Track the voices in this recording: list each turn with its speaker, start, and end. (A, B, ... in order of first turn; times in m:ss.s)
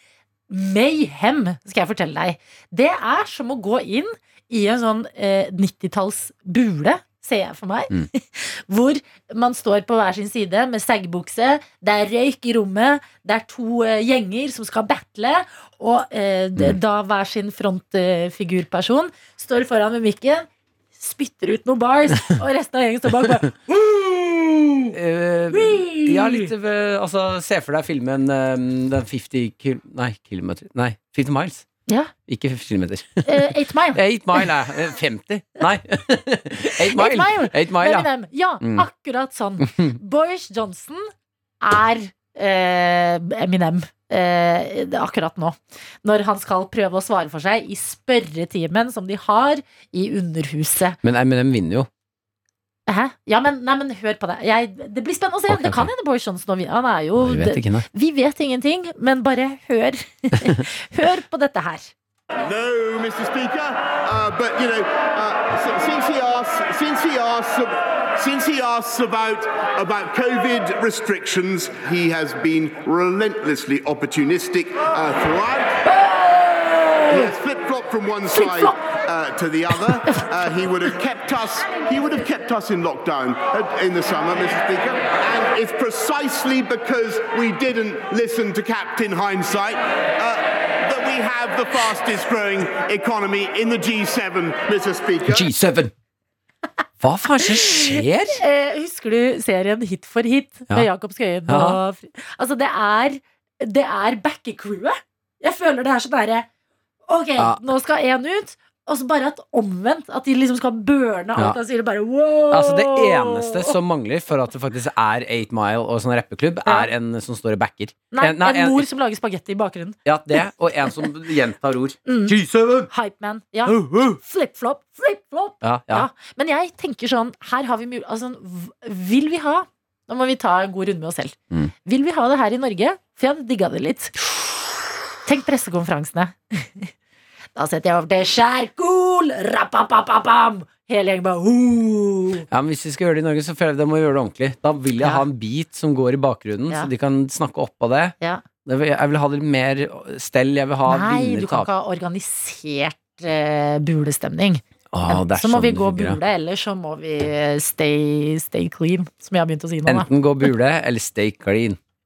0:00.5-0:23.6 A
0:24.9-0:31.7 B
0:25.5-0:26.5 A
0:32.3-0:38.1 B
0:33.3-0:34.5 A
0:36.8-0:51.0 A
0:38.6-0:38.9 B
0:39.6-0:40.0 B
0:51.0-0:51.9 B
0:52.9-1:01.9 A
0:55.5-0:55.9 B
0:57.2-0:57.9 B
1:02.4-1:15.8 C
1:15.9-1:17.3 A
1:17.1-1:35.5 C
1:18.3-1:18.8 A
1:19.8-1:20.3 A
1:35.3-1:35.9 B
1:37.0-1:38.4 B
1:37.4-1:46.5 A
1:41.5-1:41.8 B
1:47.1-1:53.8 A
1:47.4-1:47.6 B
1:52.5-1:58.8 B
1:58.1-2:00.0 A
2:00.1-2:02.9 B
2:02.1-2:02.4 A
2:02.9-2:14.2 A
2:03.7-2:04.2 B
2:05.6-2:06.1 B
2:15.2-2:16.9 A
2:17.6-2:22.4 A
2:22.5-2:28.2 B
2:25.0-2:25.2 A
2:28.7-2:31.7 B
2:30.9-2:40.1 A
2:34.9-2:36.2 B
2:39.9-2:41.8 B